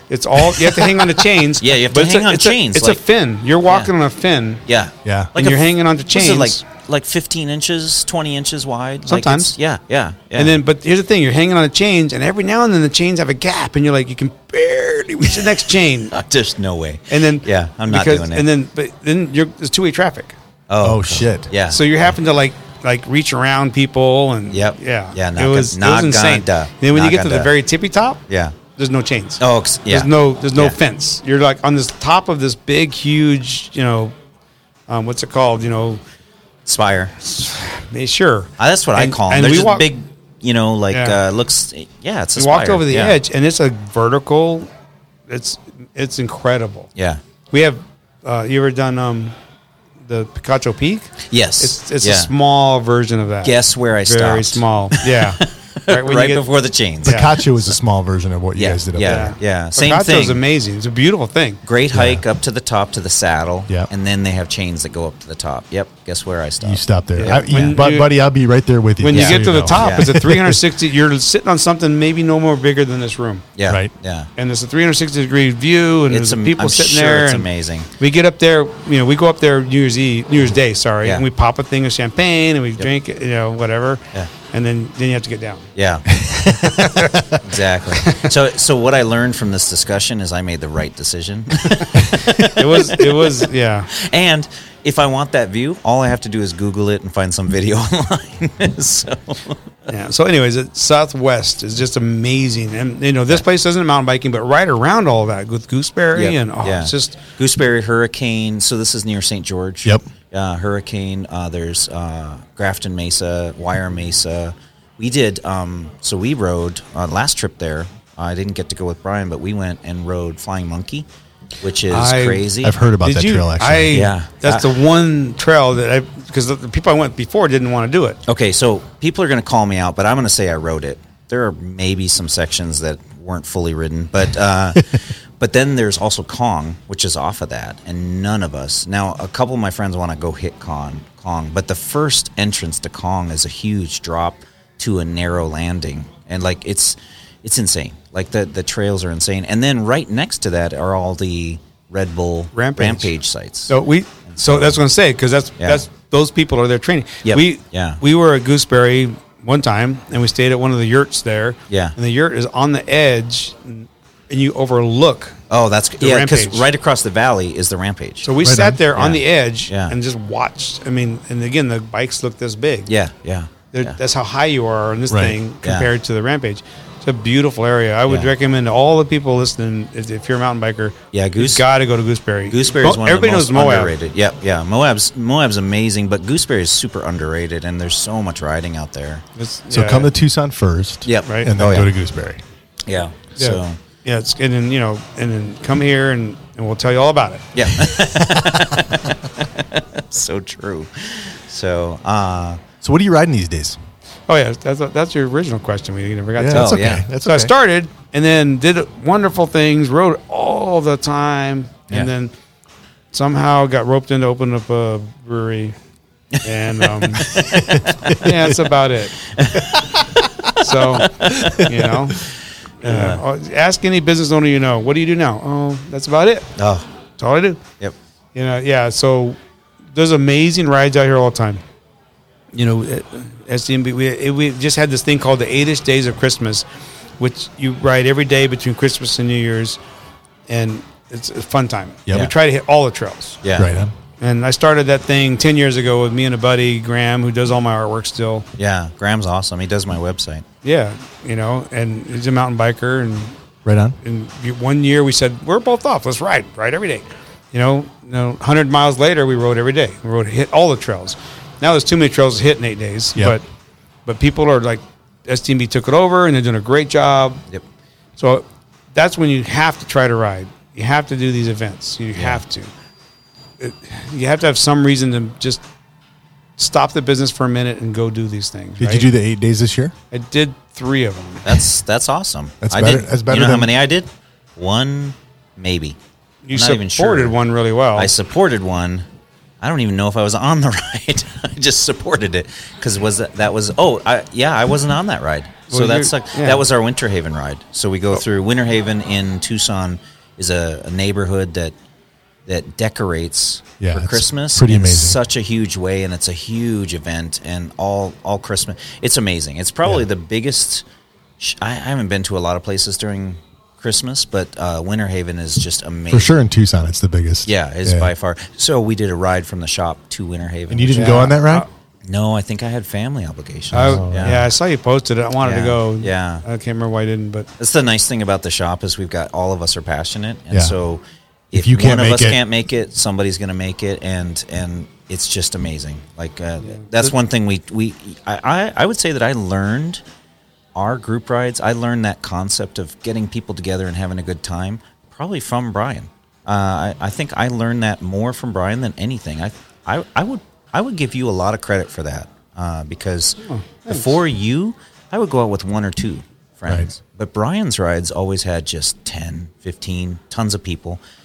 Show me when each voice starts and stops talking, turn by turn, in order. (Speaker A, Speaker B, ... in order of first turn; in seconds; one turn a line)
Speaker A: 0.1-4.6
Speaker B: 0.4-0.9
Speaker B: 1.6-3.0
Speaker B: 4.7-10.6
Speaker C: 5.0-5.3
Speaker A: 5.4-6.6
Speaker A: 9.1-9.5
Speaker A: 10.4-16.1
Speaker B: 15.4-18.5
Speaker A: 17.1-20.4
Speaker B: 20.7-21.8
Speaker C: 20.8-21.5
Speaker A: 21.7-28.2
Speaker B: 24.5-27.5
Speaker B: 28.3-28.6
Speaker A: 28.8-34.1
Speaker B: 29.4-30.8
Speaker A: 34.9-36.0
Speaker B: 36.7-37.1
Speaker A: 37.2-39.9
Speaker B: 38.6-43.2
Speaker A: 40.9-41.2
Speaker A: 42.4-44.7
Speaker A: 45.3-46.9
Speaker A: 47.5-49.4
Speaker A: 50.0-56.5
Speaker B: 51.3-52.3
Speaker B: 53.4-57.7
Speaker A: 57.0-57.4
Speaker C: 57.0-59.3
Speaker B: 58.6-60.4
Speaker A: 59.0-61.6
Speaker B: 61.6-67.5
Speaker C: 61.9-62.2
Speaker C: 66.6-70.6
Speaker A: 67.2-68.1
Speaker A: 69.0-73.5
Speaker B: 69.1-70.3
Speaker B: 73.6-74.3
Speaker A: 74.4-85.7
Speaker B: 76.1-77.9
Speaker B: 85.8-86.2
Speaker C: 86.2-87.4
Speaker A: 86.8-87.2
Speaker B: 87.4-99.7
Speaker A: 92.5-93.9
Speaker A: 99.9-107.2
Speaker B: 106.2-121.1
Speaker B: 121.6-122.8
Speaker A: 121.9-122.5
Speaker C: 122.6-124.0
Speaker A: 123.0-128.2
Speaker B: 123.9-124.7
Speaker B: 128.3-153.7
Speaker A: 152.5-153.1
Speaker A: 153.7-165.4
Speaker B: 154.3-154.8
Speaker B: 155.6-155.8
Speaker B: 157.2-158.0
Speaker B: 161.7-161.9
Speaker B: 165.5-168.3
Speaker A: 166.0-166.7
Speaker A: 168.2-172.9
Speaker C: 168.4-168.8
Speaker B: 168.9-169.9
Speaker B: 172.9-174.0
Speaker A: 173.7-183.9
Speaker C: 175.1-175.4
Speaker B: 175.6-175.9
Speaker B: 181.1-181.7
Speaker B: 182.5-189.2
Speaker A: 189.4-190.1
Speaker C: 189.7-192.4
Speaker B: 191.1-191.9
Speaker A: 191.2-191.5
Speaker B: 192.9-193.8
Speaker A: 193.4-197.5
Speaker B: 197.6-202.6
Speaker C: 202.8-203.8
Speaker A: 204.3-212.3
Speaker C: 206.4-207.5
Speaker B: 206.5-207.0
Speaker A: 213.1-215.8
Speaker A: 216.4-217.3
Speaker B: 217.1-218.2
Speaker C: 217.7-218.3
Speaker A: 218.1-219.2
Speaker B: 219.3-220.2
Speaker A: 220.6-222.2
Speaker B: 220.8-222.3
Speaker A: 222.8-226.5
Speaker B: 222.8-223.2
Speaker B: 226.6-226.9
Speaker A: 227.2-227.6
Speaker A: 228.3-229.4
Speaker A: 229.9-231.6
Speaker A: 232.5-236.7
Speaker A: 237.2-239.8
Speaker A: 240.5-243.4
Speaker B: 243.4-243.8
Speaker C: 243.6-243.9
Speaker A: 244.2-248.5
Speaker B: 248.6-250.4
Speaker A: 250.6-253.4
Speaker C: 253.7-254.0
Speaker A: 254.0-263.4
Speaker A: 264.1-267.4
Speaker A: 268.2-272.7
Speaker A: 273.6-275.6
Speaker A: 276.6-279.1
Speaker C: 278.8-279.9
Speaker A: 280.1-281.6
Speaker B: 281.4-286.0
Speaker C: 282.6-283.7
Speaker A: 286.4-288.1
Speaker B: 286.5-287.4
Speaker B: 287.9-289.1
Speaker B: 289.6-301.7
Speaker A: 295.7-296.6
Speaker B: 302.5-310.9
Speaker C: 303.8-305.2
Speaker B: 311.4-316.4
Speaker C: 316.1-318.1
Speaker B: 317.5-321.3
Speaker C: 320.7-321.7
Speaker A: 320.9-321.7
Speaker B: 322.1-324.5
Speaker C: 323.7-324.4
Speaker A: 323.7-327.5
Speaker B: 325.4-326.4
Speaker B: 327.6-340.0
Speaker C: 331.5-332.4
Speaker A: 336.6-337.1
Speaker B: 340.8-361.0
Speaker A: 353.4-354.1